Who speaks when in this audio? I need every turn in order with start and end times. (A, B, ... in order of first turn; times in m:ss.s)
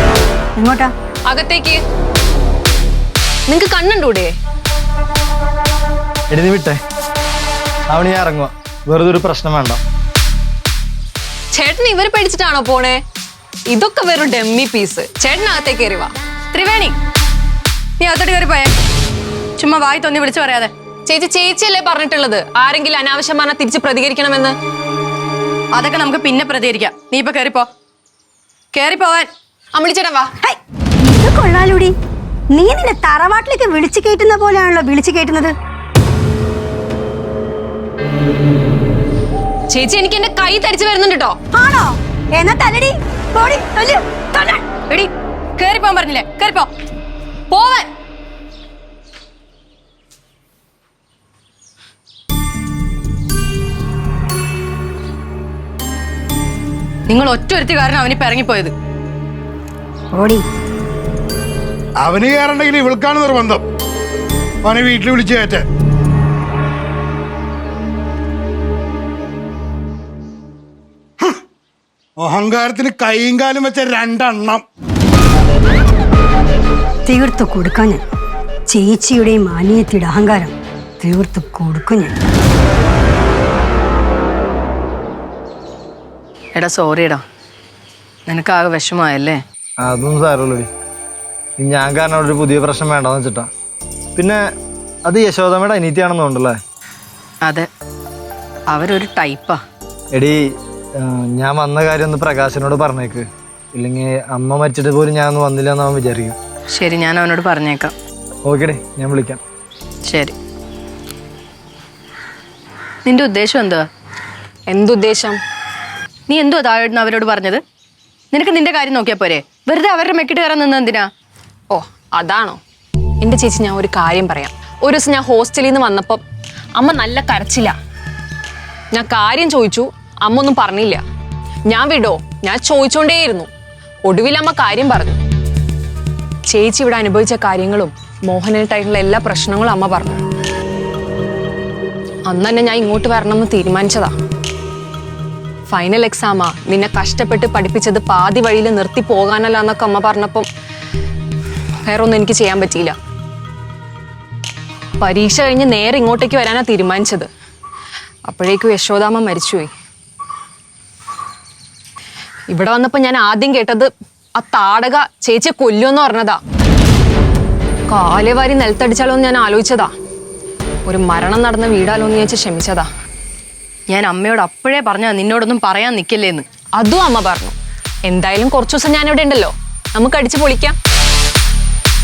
0:00.6-0:00.9 A
0:01.2-0:01.8 B
0:03.5-0:04.3 B
0:06.3-0:06.8 C
0:07.9-0:09.8 C
0:11.5-0:13.0 B
0:13.7-0:16.1 B
0:16.5-0:17.0 D
0:18.0-0:18.7 D
0:19.6-0:20.7 D
0:21.1-0:24.6 B
0:25.7-0:27.7 D
0:28.7-0:29.3 D
0:29.7-0:30.3 B
0:30.4-0:31.9 A
0:32.5-0:35.5 A
0:39.7-0:41.4 B
0:41.5-0:44.6 A
0:44.9-0:46.7 D
0:47.5-0:47.9 D
0:57.1-0:58.7 D
1:00.1-1:00.4 A
1:02.0-1:03.6 E
1:04.6-1:05.6 E
1:12.2-1:14.6 E
1:17.1-1:18.0 A
1:18.7-1:22.1 A
1:26.5-1:27.2 D
1:28.3-1:29.4 D
1:29.8-1:30.7 C
1:31.6-1:33.5 C
1:34.2-1:34.4 C
1:35.0-1:36.6 C
1:37.4-1:37.7 D
1:38.7-1:39.6 D
1:41.0-1:46.4 C
1:46.7-1:47.9 D
1:48.4-1:49.4 C
1:50.0-1:50.3 D
1:53.0-1:53.8 D
1:54.7-1:55.4 B
1:56.3-1:57.6 D
1:58.3-2:01.1 D
2:01.7-2:02.6 B
2:03.2-2:06.2 B
2:06.8-2:07.7 B
2:08.9-2:11.0 B
2:11.7-2:13.5 B
2:14.0-2:15.2 B
2:16.5-2:20.2 B
2:22.3-2:24.1 B
2:25.7-2:30.5 B
2:31.8-2:33.0 B
2:35.0-2:37.3 B
2:38.2-2:39.7 B
2:42.5-2:46.4 B
2:47.9-2:49.9 B
2:50.8-2:52.9 B
2:53.9-2:56.4 D
2:56.8-2:57.5 B
2:58.0-3:00.8 B